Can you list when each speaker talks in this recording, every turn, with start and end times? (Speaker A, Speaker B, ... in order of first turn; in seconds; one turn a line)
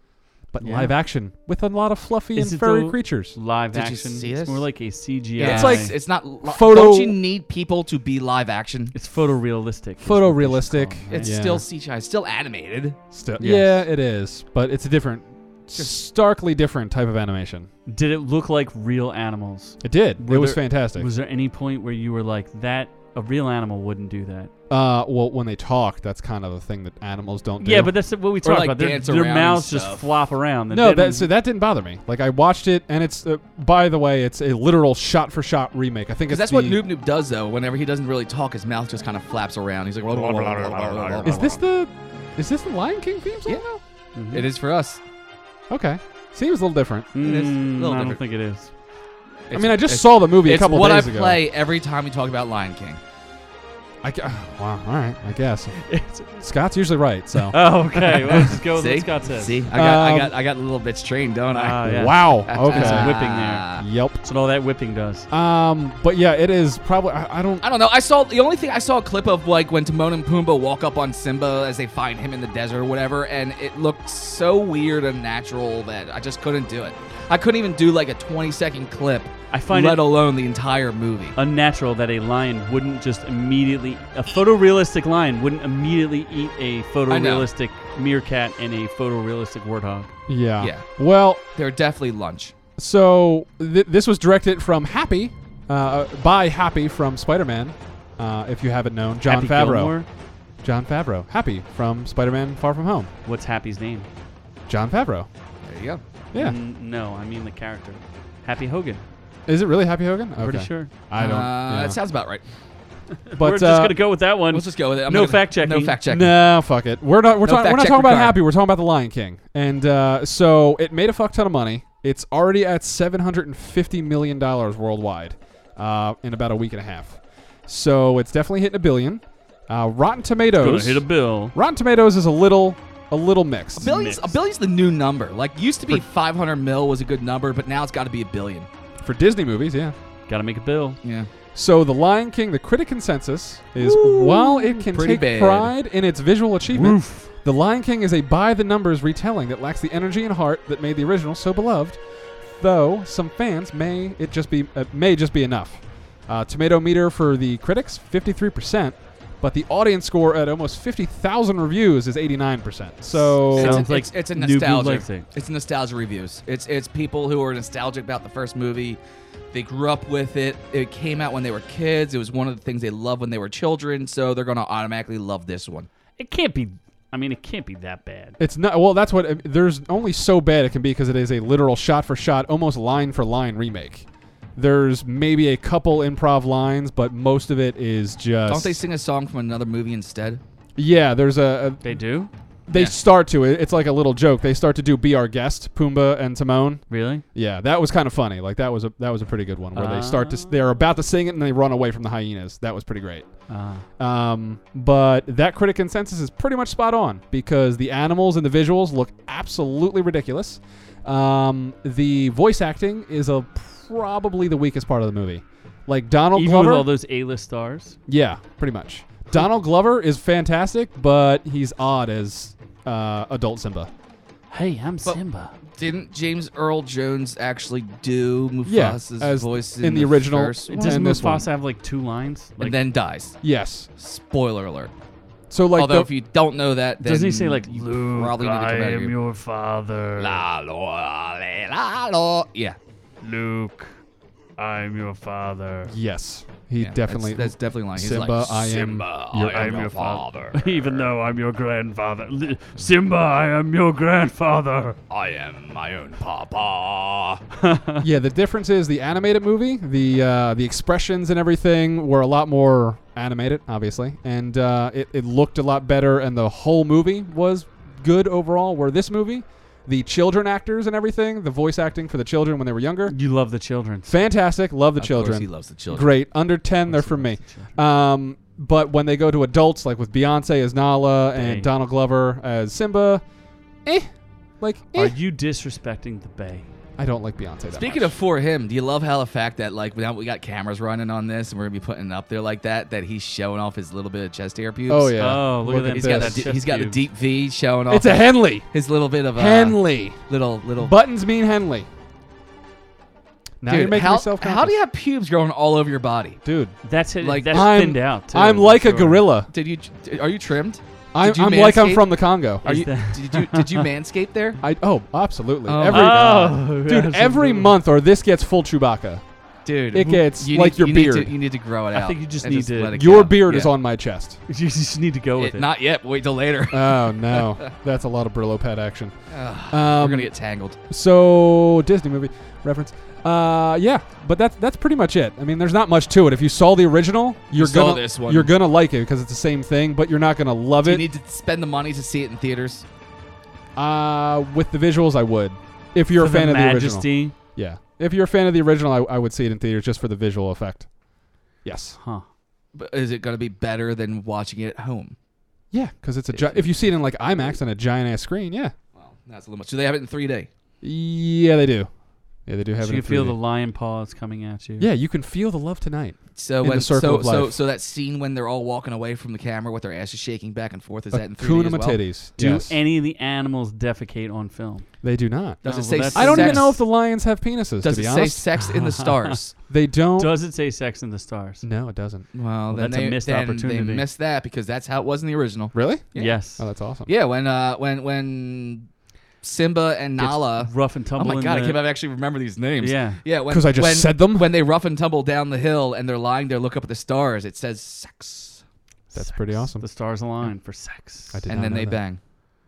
Speaker A: 0.5-3.4
Speaker B: 0.6-0.9
Speaker B: 2.4-5.9
Speaker C: 3.7-4.7
Speaker C: 5.4-8.9
Speaker A: 5.4-5.9
Speaker A: 6.4-7.2
Speaker B: 8.9-11.3
Speaker A: 10.0-11.6
Speaker C: 11.1-13.0
Speaker A: 13.1-17.7
Speaker B: 13.4-13.8
Speaker B: 17.9-24.5
Speaker A: 19.8-21.1
Speaker A: 24.7-27.9
Speaker B: 27.6-31.3
Speaker C: 28.4-30.1
Speaker A: 30.7-36.8
Speaker C: 36.3-41.6
Speaker B: 40.1-41.5
Speaker A: 41.2-43.8
Speaker C: 43.5-43.7
Speaker B: 44.1-44.5
Speaker C: 44.3-45.0
Speaker A: 45.7-47.1
Speaker B: 47.1-48.7
Speaker C: 47.2-48.2
Speaker C: 49.5-53.0
Speaker A: 49.5-51.4
Speaker A: 54.0-57.6
Speaker B: 55.9-56.4
Speaker B: 57.5-59.6
Speaker C: 58.3-63.8
Speaker A: 59.7-60.3
Speaker B: 61.5-65.3
Speaker A: 61.8-63.1
Speaker A: 63.8-64.2
Speaker A: 65.3-67.6
Speaker C: 67.6-81.3
Speaker B: 79.5-80.0
Speaker B: 81.3-90.1
Speaker C: 87.1-87.5
Speaker A: 90.3-91.4
Speaker C: 90.6-90.9
Speaker C: 91.5-92.5
Speaker A: 92.8-100.0
Speaker B: 99.2-100.1
Speaker A: 100.6-103.1
Speaker B: 103.2-104.1
Speaker A: 104.7-105.3
Speaker C: 105.6-106.0
Speaker B: 106.3-109.0
Speaker A: 109.5-112.0
Speaker B: 110.4-110.9
Speaker C: 111.2-112.4
Speaker B: 113.3-116.0
Speaker A: 113.3-114.0
Speaker C: 114.5-116.3
Speaker A: 116.0-133.9
Speaker C: 117.4-118.4
Speaker B: 130.6-131.5
Speaker C: 133.8-138.7
Speaker B: 133.8-134.4
Speaker A: 139.0-139.9
Speaker B: 140.3-141.0
Speaker C: 141.0-141.3
Speaker A: 141.5-163.8
Speaker C: 143.8-145.7
Speaker B: 146.7-147.3
Speaker C: 163.4-169.0
Speaker B: 163.5-165.3
Speaker C: 169.5-175.9
Speaker B: 176.2-178.4
Speaker A: 178.4-188.8
Speaker C: 188.5-190.4
Speaker A: 190.8-192.0
Speaker B: 191.8-192.3
Speaker A: 192.7-203.3
Speaker B: 196.9-197.2
Speaker B: 199.7-200.6
Speaker B: 203.5-203.8
Speaker A: 204.0-216.9
Speaker B: 216.3-218.0
Speaker A: 218.1-223.9
Speaker B: 224.5-225.5
Speaker C: 225.7-231.2
Speaker A: 228.7-231.5
Speaker B: 230.7-232.8
Speaker C: 232.6-233.4
Speaker A: 233.4-233.9
Speaker C: 234.0-234.9
Speaker A: 235.5-236.1
Speaker C: 235.7-239.1
Speaker B: 237.0-240.4
Speaker C: 240.2-242.8
Speaker B: 243.2-243.9
Speaker B: 244.6-245.9
Speaker A: 245.9-249.8
Speaker C: 246.8-251.1
Speaker B: 249.4-255.0
Speaker C: 255.1-257.4
Speaker B: 257.6-258.0
Speaker A: 258.0-273.1
Speaker B: 273.1-274.1
Speaker A: 274.1-283.2
Speaker C: 275.0-276.1
Speaker B: 276.9-277.7
Speaker B: 281.3-281.7
Speaker A: 283.8-285.1
Speaker B: 284.9-286.7
Speaker A: 287.0-288.1
Speaker C: 287.7-295.2
Speaker A: 294.9-296.5
Speaker B: 295.2-297.0
Speaker C: 295.9-300.9
Speaker A: 297.9-298.7
Speaker A: 299.3-300.2
Speaker A: 300.8-301.9
Speaker A: 303.6-304.8
Speaker C: 303.7-306.4
Speaker A: 306.4-306.8
Speaker B: 306.8-309.2
Speaker C: 307.2-307.7
Speaker A: 307.5-309.5
Speaker C: 309.5-314.6
Speaker A: 311.1-312.6
Speaker B: 312.6-313.8
Speaker A: 314.6-319.2
Speaker C: 315.6-316.6
Speaker B: 315.9-317.8
Speaker C: 319.6-323.7
Speaker A: 319.9-321.3
Speaker B: 321.9-323.0
Speaker A: 322.9-324.4
Speaker B: 324.5-325.7
Speaker C: 325.4-327.7
Speaker A: 326.7-329.1
Speaker C: 329.3-330.8
Speaker A: 329.7-330.3
Speaker A: 330.9-341.1
Speaker C: 337.5-338.5
Speaker C: 340.8-342.8
Speaker A: 343.8-350.9
Speaker B: 346.2-347.3
Speaker A: 351.6-352.0
Speaker B: 352.0-352.2
Speaker C: 352.7-355.1
Speaker A: 355.7-358.7
Speaker C: 356.3-356.7
Speaker C: 358.9-360.5
Speaker A: 360.8-361.9
Speaker A: 362.4-363.4
Speaker B: 362.8-364.9
Speaker A: 364.8-367.6
Speaker C: 366.4-372.0
Speaker A: 371.1-372.8
Speaker B: 372.4-374.9
Speaker A: 375.0-378.4
Speaker B: 375.6-376.8
Speaker C: 375.6-376.8
Speaker C: 377.8-379.6
Speaker B: 378.6-379.4
Speaker A: 379.7-380.3
Speaker B: 380.2-381.6
Speaker A: 381.6-382.2
Speaker C: 382.3-386.4
Speaker B: 382.7-384.0
Speaker A: 385.7-387.1
Speaker B: 386.1-386.6
Speaker C: 387.1-388.9
Speaker C: 389.4-398.6
Speaker B: 390.2-391.8
Speaker B: 392.8-393.2
Speaker A: 393.5-394.5
Speaker B: 399.1-401.4
Speaker A: 399.1-399.8
Speaker A: 401.3-402.0
Speaker C: 401.5-402.2